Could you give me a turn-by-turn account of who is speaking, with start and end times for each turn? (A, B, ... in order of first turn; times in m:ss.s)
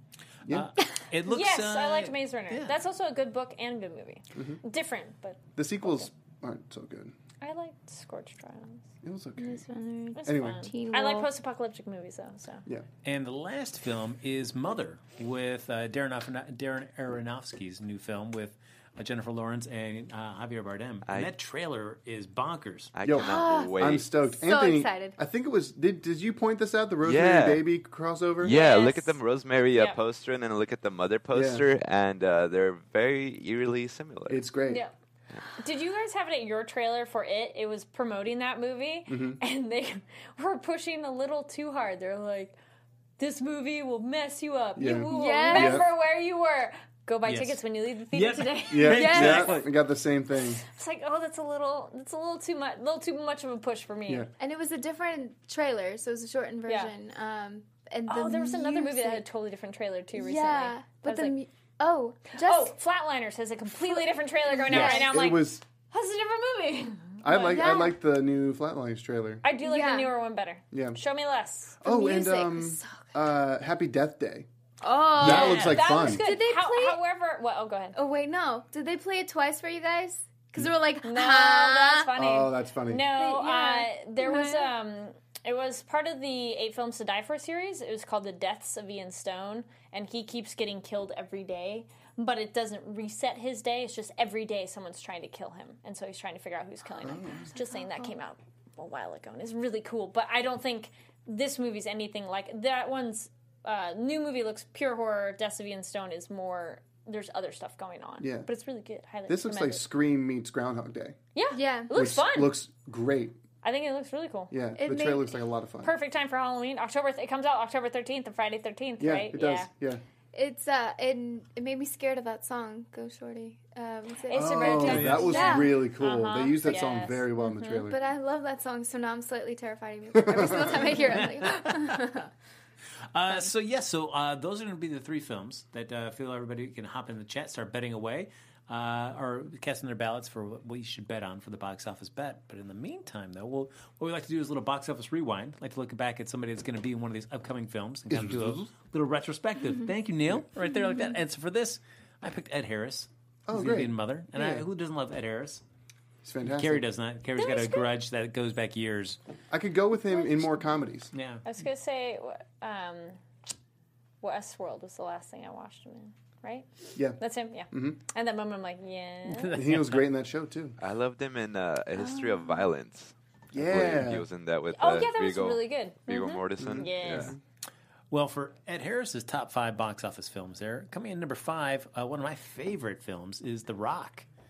0:00.5-0:02.7 A
0:01.3-0:06.1 B
0:04.4-0:04.6 C
0:05.6-0:07.2 C
0:07.4-0:08.9 B
0:09.0-0:09.6 C
0:09.4-0:11.3 D
0:10.2-0:12.7 B
0:10.2-0:10.7 C
0:13.0-0:22.9 A
0:21.1-0:21.3 E
0:22.9-0:24.1 E
0:23.0-0:28.6 C
0:23.2-0:25.2 D
0:27.0-0:27.6 E
0:28.4-0:34.4 E
0:28.4-0:29.2 B
0:29.7-0:30.0 B
0:31.3-0:31.6 C
0:34.3-0:34.8 C
0:34.7-0:34.9 B
0:35.5-0:42.6 B
0:39.1-0:39.4 C
0:43.2-0:49.3 B
0:44.8-0:45.9 C
0:45.1-0:45.8 D
0:47.2-0:49.8 A
0:48.7-0:50.6 C
0:48.9-0:49.6 D
0:50.6-0:54.3 B
0:54.4-0:59.2 D
0:56.7-0:56.9 B
0:58.1-1:01.4 B
1:00.2-1:02.7 D
1:02.4-1:07.6 B
1:03.8-1:05.1 D
1:04.7-1:05.6 C
1:07.2-1:09.4 C
1:07.3-1:08.0 D
1:09.4-1:11.8 B
1:09.6-1:10.1 D
1:10.7-1:11.0 C
1:11.8-1:14.5 C
1:11.8-1:13.1 D
1:14.8-1:17.0 D
1:15.2-1:16.2 C
1:15.2-1:15.8 A
1:15.2-1:18.0 B
1:18.0-1:22.1 D
1:21.0-1:49.8 B
1:22.2-1:23.1 C
1:23.1-1:24.7 D
1:37.0-1:37.5 C
1:37.1-1:38.2 D
1:48.2-1:48.5 C
1:49.3-1:51.2 C
1:51.4-1:52.6 B
1:51.5-1:51.9 D
1:51.9-1:53.4 C
1:53.6-1:54.5 B
1:54.5-1:55.9 C
1:54.8-1:55.3 D
1:55.8-1:59.7 B
1:59.0-2:00.0 C
2:00.3-2:05.9 D
2:04.2-2:07.8 B
2:04.3-2:08.0 C
2:04.8-2:05.3 A
2:07.9-2:12.3 D
2:10.2-2:11.1 C
2:11.0-2:12.2 A
2:13.1-2:35.6 A
2:28.1-2:28.7 C
2:33.5-2:34.7 C
2:36.2-2:36.8 C
2:36.5-2:39.2 A
2:37.4-2:37.9 B
2:39.5-2:41.1 C
2:41.1-2:41.5 A
2:41.4-2:43.2 B
2:44.2-2:49.6 B
2:47.7-2:48.0 C
2:49.3-2:50.1 A
2:49.5-2:50.8 C
2:50.8-2:57.3 E
2:52.0-2:52.7 D
2:53.5-2:54.3 C
2:54.8-2:57.4 B
2:56.6-2:57.4 C
2:58.1-3:04.3 A